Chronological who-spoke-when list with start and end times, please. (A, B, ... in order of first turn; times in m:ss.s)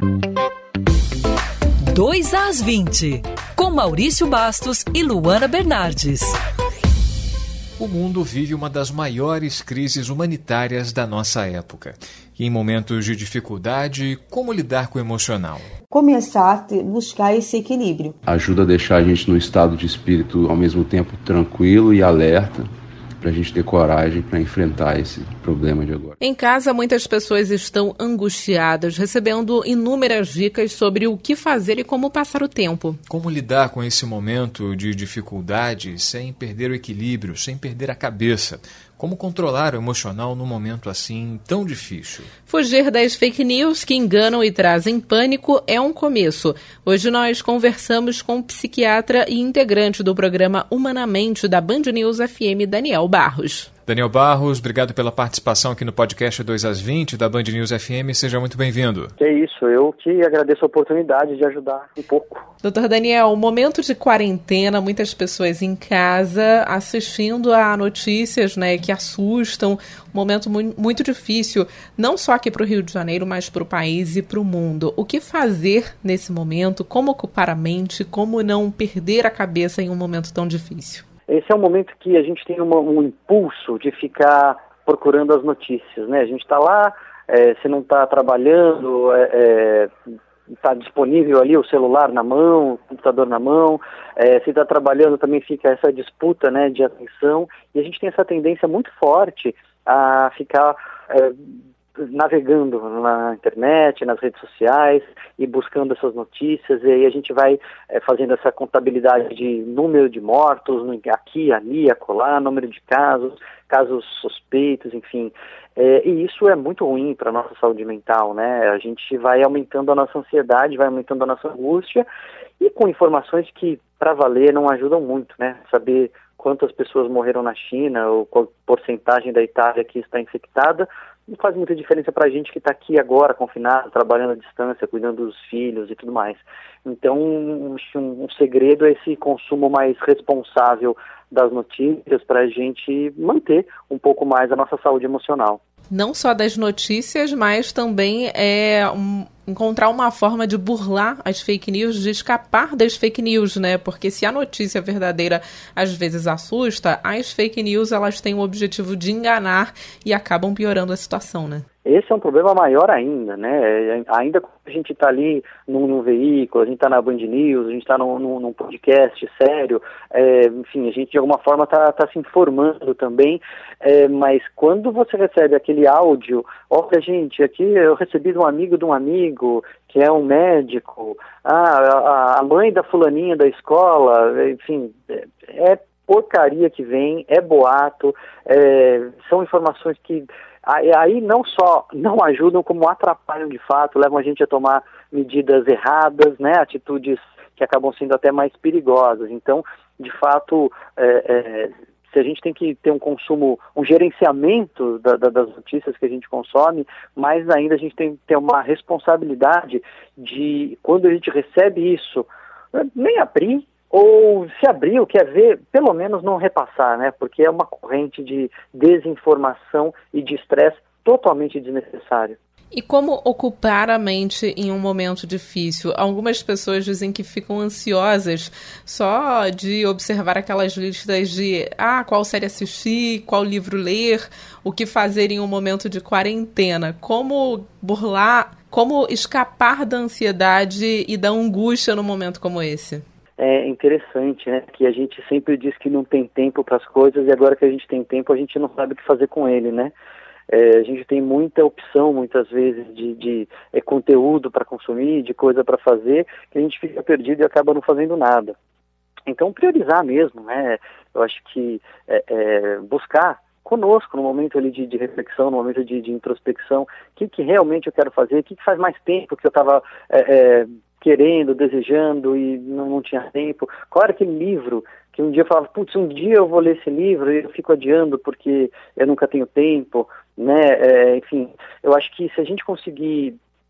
0:01.9-0:06.4 A
0:07.8-0:15.7 B
0:15.9-0:18.2 C
0:18.3-0:22.6 D
0:23.2-0:26.0 D
0:26.2-0:33.0 E
0:33.1-0:42.3 B
0:42.5-0:53.7 E
0:53.9-0:59.1 B
0:59.2-1:02.5 F
1:02.6-1:21.0 E
1:21.3-1:29.9 F
1:30.6-1:41.4 F
1:42.0-2:02.1 F
2:02.6-2:25.6 F
2:25.9-2:41.6 E
2:41.8-3:42.4 F
3:42.7-4:03.0 E
4:03.4-4:09.9 F
4:10.5-4:18.5 F
4:19.3-4:43.4 F